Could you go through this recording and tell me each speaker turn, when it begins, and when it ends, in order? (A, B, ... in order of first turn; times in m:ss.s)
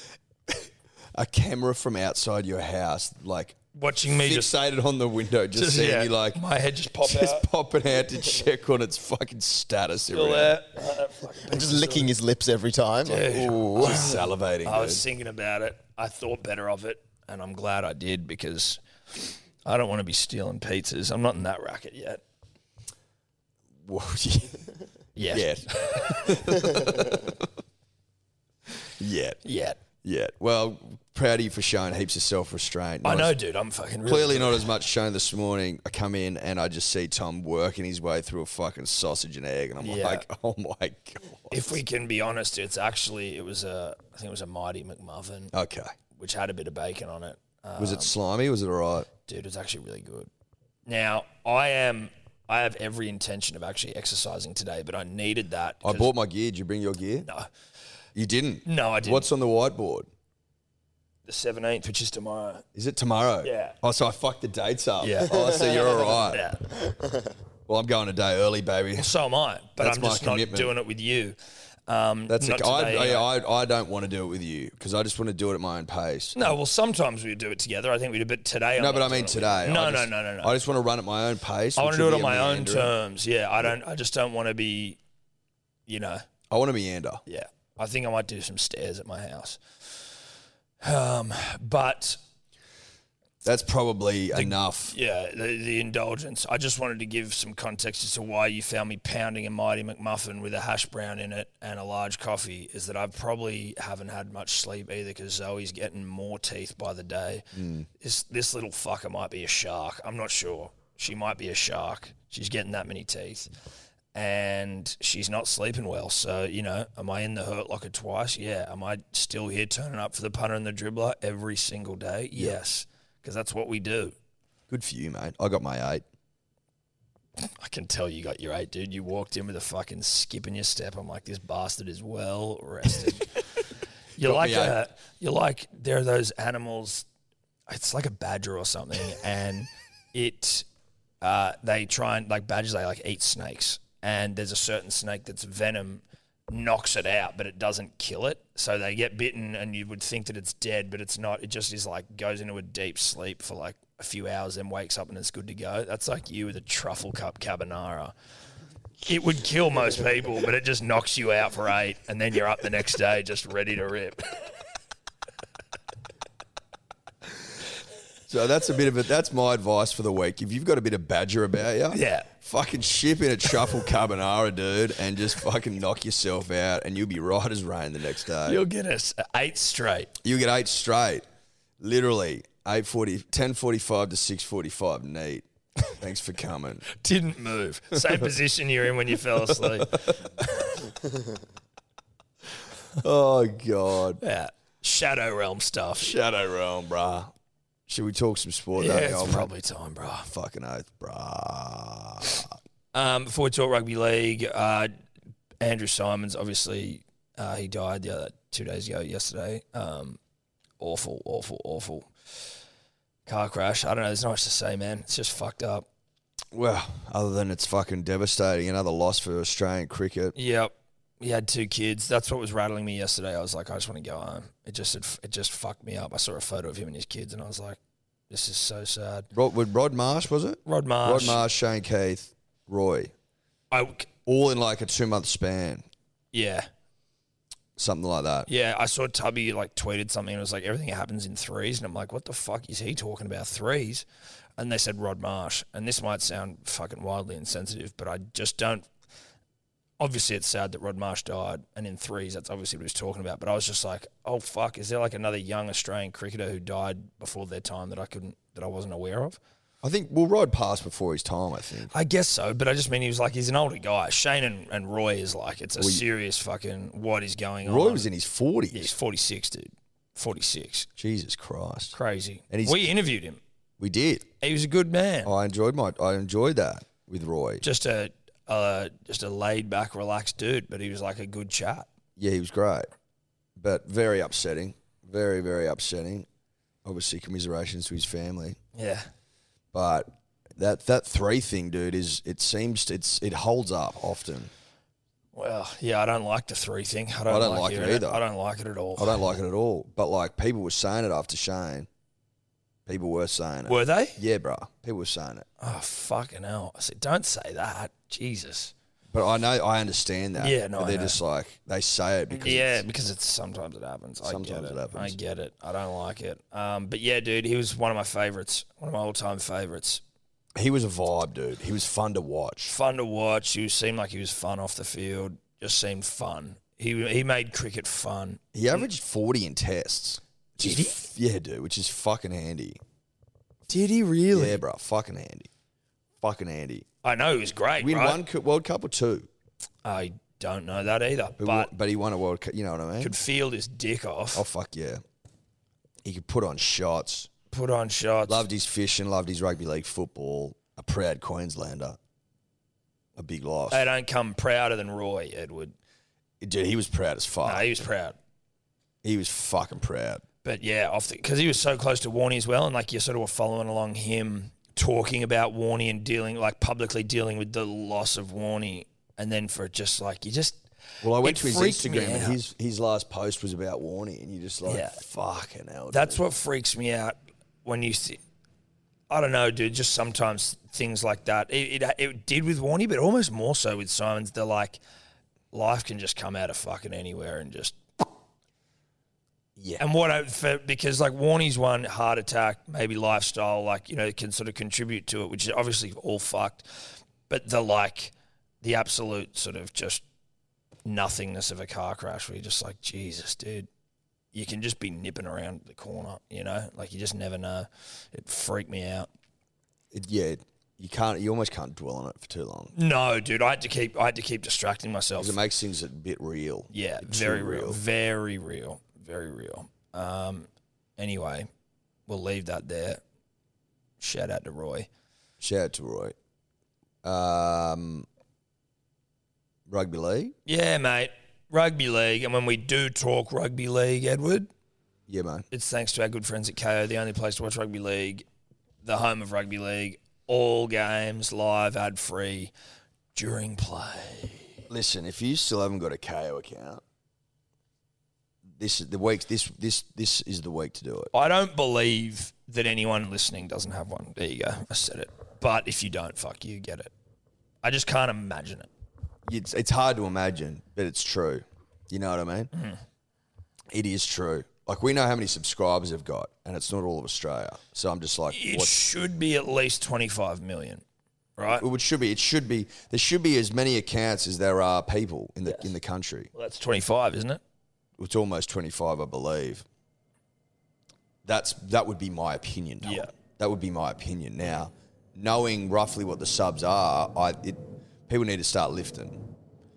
0:00.5-0:06.4 A
0:03.7-0:04.5 B
0:05.5-0:07.5 B
0:07.0-0:10.6 A
0:10.1-0:12.1 B
0:11.5-0:14.2 C
0:13.0-0:22.2 B
0:13.2-0:15.0 A
0:23.8-0:24.7 A
0:25.2-0:26.6 B
0:25.3-0:27.5 A
0:29.0-0:29.4 A
0:29.4-0:29.8 B
0:30.0-0:33.3 A
0:33.0-0:34.7 B
0:34.0-0:41.8 A
0:39.8-0:40.2 B
0:41.5-0:45.5 B
0:45.5-0:45.9 A
0:46.1-0:48.1 B
0:47.8-0:49.1 A
0:49.2-0:50.3 B
0:50.9-0:56.1 B
0:55.8-0:57.3 A
0:58.1-1:00.1 A
0:58.6-0:59.3 B
1:01.2-1:02.6 B
1:02.7-1:06.4 A
1:03.4-1:03.8 B
1:05.0-1:06.8 B
1:07.7-1:09.1 A
1:09.0-1:11.4 B
1:09.8-1:10.7 A
1:11.9-1:13.3 B
1:12.3-1:16.5 A
1:16.3-1:20.5 B
1:18.8-1:22.9 A
1:21.8-1:25.0 B
1:25.9-1:26.2 B
1:26.5-1:27.2 A
1:27.3-1:30.1 B
1:30.8-1:32.2 B
1:33.4-1:35.0 A
1:34.3-1:47.5 B
1:47.5-1:47.9 A
1:48.0-1:53.5 B
1:54.1-2:04.1 B
2:04.7-2:06.0 A
2:07.4-2:13.3 B
2:14.2-2:14.8 A
2:14.2-2:17.0 B
2:17.7-2:20.6 B
2:21.2-2:38.1 B
2:39.0-2:44.5 B
2:48.3-2:58.6 A
2:51.9-2:52.3 B
2:58.4-3:00.1 B
3:00.2-3:01.2 A
3:01.8-3:06.9 A
3:06.9-3:10.8 B
3:09.3-3:10.3 A
3:13.0-3:14.2 A
3:14.2-3:16.1 B
3:16.0-3:17.3 A
3:17.9-3:19.5 A
3:18.8-3:20.3 B
3:20.3-3:22.5 A
3:22.9-3:24.9 B
3:25.6-3:30.2 B
3:30.8-3:32.1 B
3:33.2-3:35.8 B
3:36.5-3:40.3 A
3:40.3-3:47.8 B
3:48.3-3:49.3 B
3:49.3-3:53.1 A
3:50.6-3:51.4 B
3:53.7-3:54.1 B
3:54.2-3:55.9 A
3:56.3-3:56.7 B
3:57.8-3:58.5 A
3:58.5-4:04.0 B
4:04.6-4:08.9 B
4:10.0-4:19.4 B
4:19.8-4:21.9 A
4:21.9-4:28.1 B
4:25.8-4:26.0 A
4:27.6-4:28.9 A
4:28.7-4:30.9 B
4:31.0-4:32.0 A
4:31.9-4:33.4 B
4:32.5-4:32.9 A
4:33.8-4:34.2 A
4:34.4-4:35.3 B
4:35.2-4:37.6 A
4:37.6-4:41.9 B
4:42.2-4:42.9 A
4:43.6-4:46.3 A
4:46.8-4:48.6 A
4:48.7-4:49.1 B
4:49.7-4:54.5 A
4:55.3-4:59.2 B
4:57.3-4:58.2 A
4:59.0-5:01.9 A
5:02.8-5:05.5 A
5:03.6-5:04.2 B
5:05.6-5:08.7 B
5:09.1-5:12.8 A
5:10.4-5:11.2 B
5:12.3-5:20.0 B
5:14.2-5:15.1 A
5:20.6-5:22.7 A
5:22.6-5:28.8 B
5:28.5-5:32.8 A
5:30.6-5:31.0 B
5:33.7-5:35.5 A
5:34.3-5:34.6 B
5:36.2-5:36.9 A
5:37.0-5:38.2 B
5:37.8-5:39.3 A
5:39.8-5:41.7 B
5:41.4-5:43.1 A
5:43.0-5:44.4 B
5:44.3-5:45.0 A
5:46.0-5:47.3 A
5:47.5-5:48.4 B
5:48.3-5:52.0 A
5:53.2-5:53.9 A
5:53.7-5:55.7 B
5:56.4-5:57.8 A
5:57.4-5:58.2 B
5:59.0-6:00.2 A
6:00.4-6:10.6 B
6:11.0-6:16.2 A
6:11.2-6:12.4 B
6:14.6-6:15.0 B
6:15.9-6:18.2 B
6:19.1-6:24.8 B
6:25.5-6:27.8 B
6:29.6-6:29.8 A
6:29.8-6:36.7 B
6:37.3-6:40.0 B
6:40.8-6:43.7 B
6:44.3-6:49.1 B
6:49.9-6:52.7 A
6:52.7-6:55.3 B
6:55.2-6:57.8 A
6:56.7-7:01.5 B
7:02.1-7:03.0 B
7:04.0-7:04.9 B
7:05.4-7:06.1 A
7:07.0-7:08.1 A
7:09.7-7:10.3 A
7:10.4-7:14.5 B
7:15.1-7:15.4 A
7:15.5-7:18.2 B
7:18.8-7:22.5 B
7:23.1-7:24.6 B
7:24.7-7:26.8 A
7:28.6-7:31.1 A
7:31.1-7:36.9 B
7:37.6-7:38.7 B
7:39.2-7:42.5 A
7:42.5-7:42.8 B
7:43.7-7:48.8 A
7:48.3-7:50.8 B
7:51.4-7:51.6 B
7:51.5-7:56.3 A
7:55.4-7:55.7 B
7:56.3-7:57.4 B
7:58.0-7:59.6 A
8:01.2-8:09.2 A
8:02.8-8:03.1 B